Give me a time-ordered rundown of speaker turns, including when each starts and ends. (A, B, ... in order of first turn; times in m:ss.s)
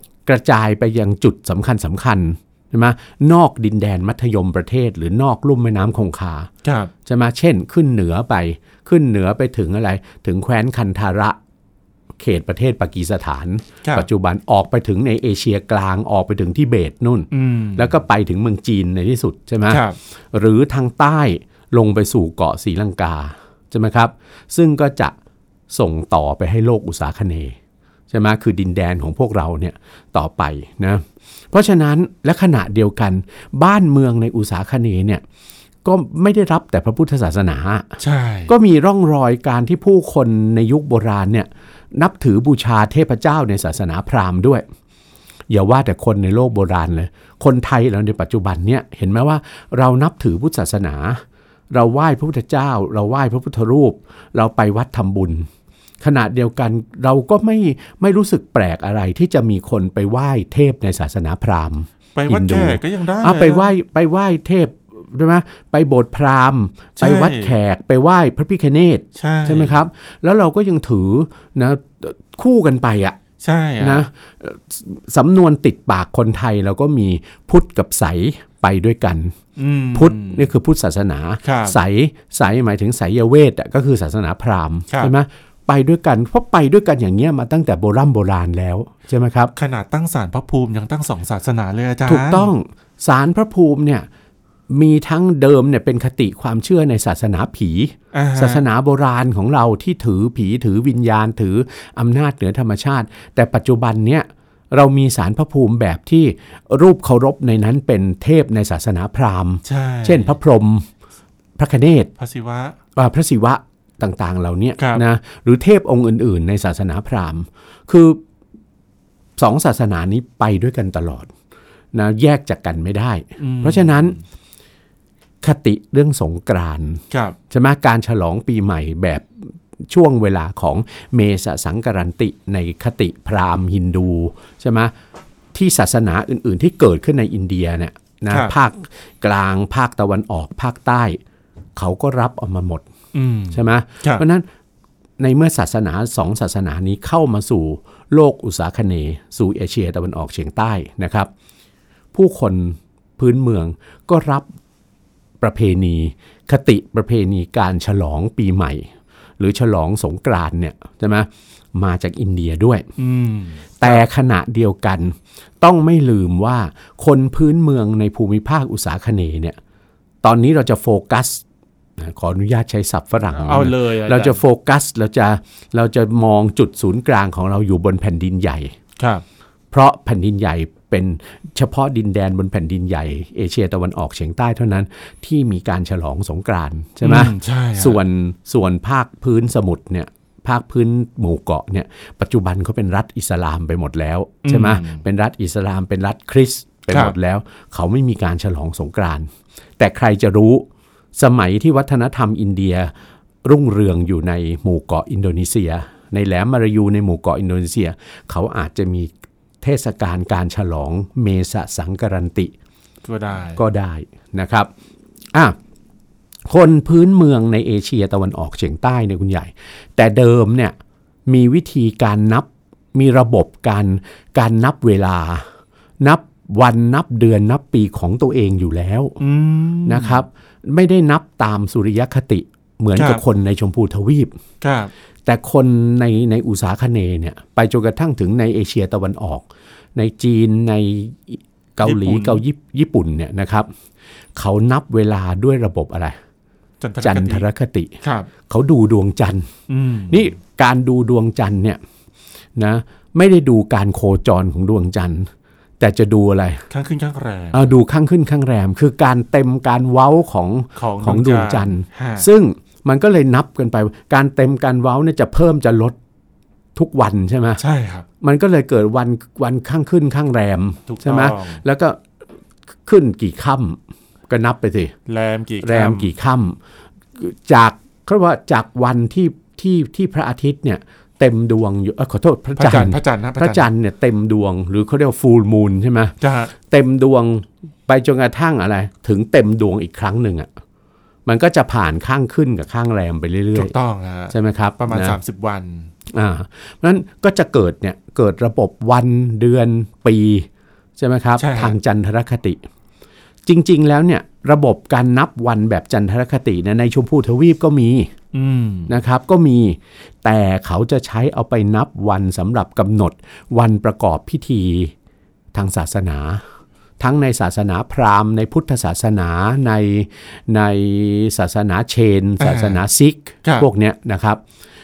0:00.2-0:06.5 A
0:06.6-0:06.9 B
0:07.0-0:11.4 A
0:12.2-0:25.1 A
0:17.3-0:17.9 B
0:19.7-0:20.0 B
0:25.7-0:27.6 A
0:28.1-0:35.2 A
0:35.8-0:37.9 A
0:38.0-0:38.5 B
0:38.5-0:44.6 A
0:45.5-0:55.5 A
0:56.0-1:13.2 A
1:02.1-1:03.7 B
1:07.0-1:07.5 B
1:09.2-1:09.8 B
1:13.4-1:14.0 B
1:13.8-1:19.4 A
1:19.6-1:20.5 B
1:19.9-1:29.5 A
1:21.4-1:21.8 B
1:29.6-1:32.5 B
1:32.0-1:34.1 A
1:34.7-1:50.9 A
1:38.1-1:38.6 B
1:49.6-1:50.3 B
1:51.6-1:52.1 A
1:52.2-1:52.8 B
1:53.0-1:58.2 A
1:54.8-1:55.0 B
1:59.4-2:01.3 A
2:01.9-2:04.2 A
2:03.4-2:04.2 B
2:05.4-2:14.9 A
2:07.1-2:07.4 B
2:15.5-2:21.2 A
2:21.8-2:22.8 A
2:23.1-2:24.2 B
2:23.5-2:24.4 A
2:25.2-2:31.3 A
2:32.1-2:34.5 A
2:35.4-2:38.9 A
2:39.4-2:42.9 A
2:43.0-2:44.0 B
2:43.8-2:49.6 A
2:50.2-2:51.4 A
2:52.0-2:58.7 A
2:53.3-2:54.4 B
2:59.0-2:59.2 B
2:59.7-3:22.9 A
3:07.0-3:08.0 B
3:14.4-3:15.0 B
3:23.4-3:32.5 A
3:33.0-3:33.6 B
3:33.6-3:34.7 A
3:36.5-3:40.7 A
3:41.3-3:45.5 A
3:46.0-3:49.2 A
3:49.2-3:50.2 B
3:49.8-3:54.3 A
3:53.0-3:53.2 B
3:54.6-3:54.9 B
3:55.2-4:03.7 A
4:01.8-4:02.4 B
4:04.4-4:06.2 A
4:06.8-4:07.4 B
4:07.0-4:07.9 A
4:08.0-4:08.3 B
4:08.5-4:09.5 A
4:09.7-4:10.3 B
4:10.1-4:11.8 A
4:12.6-4:16.6 A
4:16.7-4:17.7 B
4:17.5-4:26.0 A
4:20.8-4:22.3 B
4:26.7-4:27.6 A
4:27.6-4:28.0 B
4:28.2-4:32.0 A
4:30.9-4:31.6 B
4:32.8-4:34.9 A
4:35.1-4:36.1 B
4:35.6-4:36.6 A
4:37.1-4:50.5 A
4:42.6-4:43.7 B
4:46.2-4:46.5 B
4:51.2-4:53.7 A
4:53.5-4:55.9 B
4:54.3-4:55.2 A
4:56.1-5:02.6 A
5:01.4-5:01.8 B
5:03.4-5:08.1 A
5:08.3-5:08.9 B
5:08.9-5:14.9 A
5:15.5-5:16.4 A
5:17.0-5:24.4 A
5:22.4-5:22.8 B